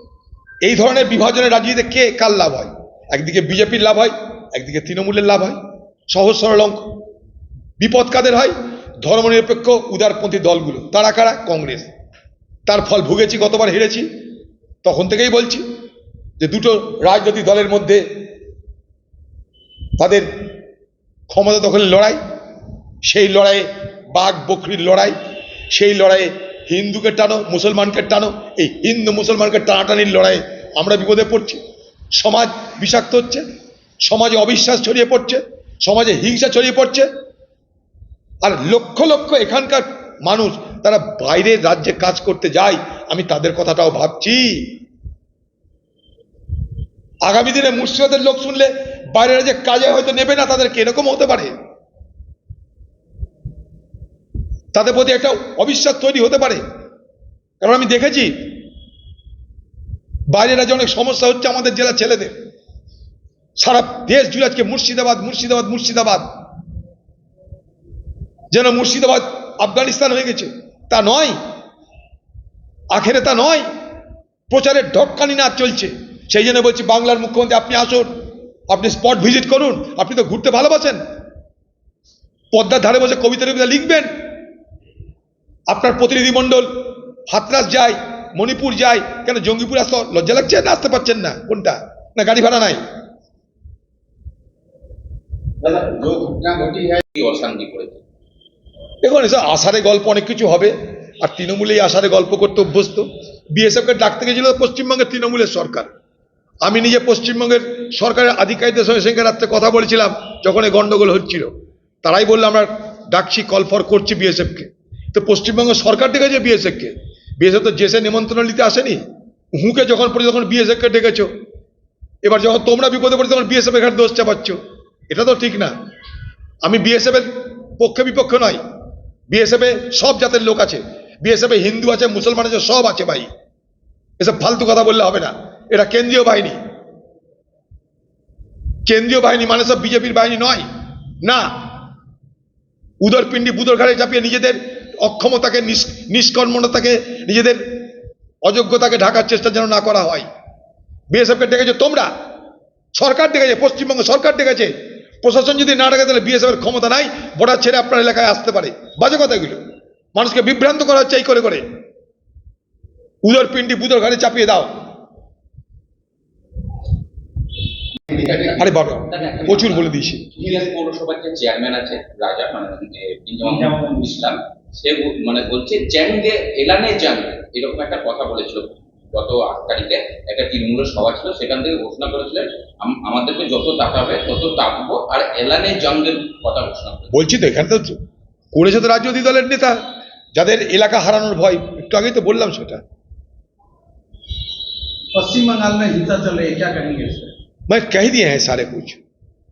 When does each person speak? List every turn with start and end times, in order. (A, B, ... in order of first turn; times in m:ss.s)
0:00.6-0:05.6 A
0:06.1-0:06.9 A
0:07.8-0:11.9 A
0:12.6-0:14.1 A
0:14.8-0:15.6 A
0:16.4-0:18.0 A
0:20.0-0:20.3 A
0:21.3-0:22.2 A
0:23.0-0:25.2 A
0:25.7-0:31.6 A
0:32.1-0:33.4 A
0:34.0-0:37.1 A
0:38.4-0:44.8 A
0:47.2-0:51.5 A
0:54.7-0:56.6 A
0:57.6-0:58.6 A
1:00.3-1:02.3 A
1:03.6-1:06.3 A
1:08.5-1:11.4 A
1:12.9-1:13.6 A
1:14.5-1:18.1 A
1:18.7-1:21.0 A
1:22.5-1:24.1 A
1:25.7-1:26.7 A
1:27.3-1:32.8 A
1:35.6-1:38.0 B
1:36.4-1:36.8 C
1:39.0-1:45.9 A
1:46.6-1:51.5 A
1:52.0-1:59.0 A
1:59.5-2:01.3 A
2:02.2-2:04.6 A
2:05.1-2:05.7 A
2:06.6-2:08.6 A
2:09.3-2:13.3 A
2:14.2-2:16.6 A
2:18.8-2:20.6 A
2:21.2-2:21.5 A
2:23.0-2:27.8 A
2:28.4-2:30.2 A
2:31.1-2:32.1 A
2:32.9-2:39.6 A
2:40.1-2:41.6 A
2:43.2-2:44.7 A
2:48.1-3:07.1 B
2:48.6-2:50.3 A
3:07.1-3:08.0 A
3:08.5-3:09.8 A
3:10.3-3:12.8 A
3:15.2-3:17.3 C
3:17.7-3:19.0 A